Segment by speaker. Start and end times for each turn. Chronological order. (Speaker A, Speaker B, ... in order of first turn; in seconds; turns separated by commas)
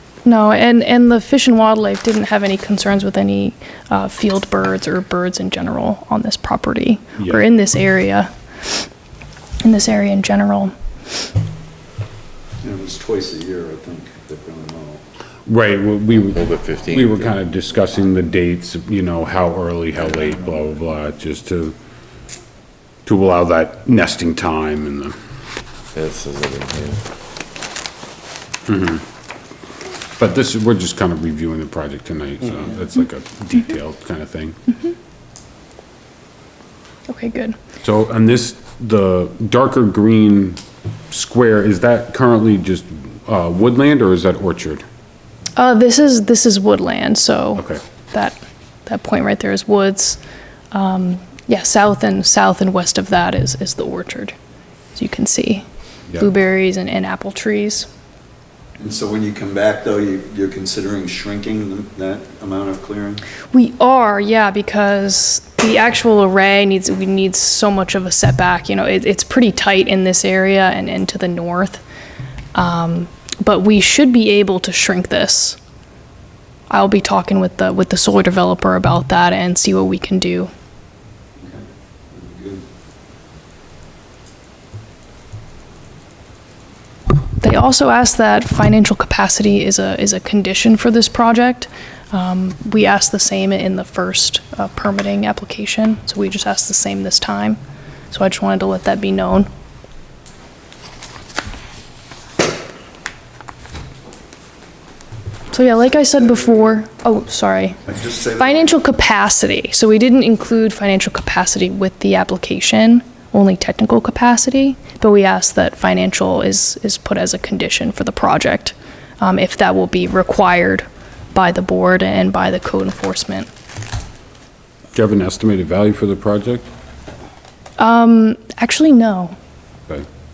Speaker A: 0.2-8.8, Speaker B: 7.2-7.5, Speaker A: 9.6-10.7, Speaker C: 12.6-15.0, Speaker B: 15.5-21.8, Speaker D: 16.3-17.2, Speaker B: 23.1-25.1, Speaker D: 25.9-27.0, Speaker B: 28.7-29.0, Speaker B: 30.2-34.6, Speaker A: 37.1-37.6, Speaker B: 37.8-40.6, Speaker B: 41.1-44.9, Speaker A: 45.6-50.2, Speaker A: 50.7-54.4, Speaker A: 55.0-57.9, Speaker C: 58.8-63.2, Speaker A: 63.5-71.8, Speaker A: 72.5-75.6, Speaker A: 76.7-80.5, Speaker C: 81.4-82.6, Speaker A: 87.4-97.6, Speaker A: 98.1-99.5, Speaker A: 105.5-107.8, Speaker C: 107.9-108.7, Speaker A: 108.4-123.5, Speaker B: 124.9-126.7, Speaker A: 127.8-129.3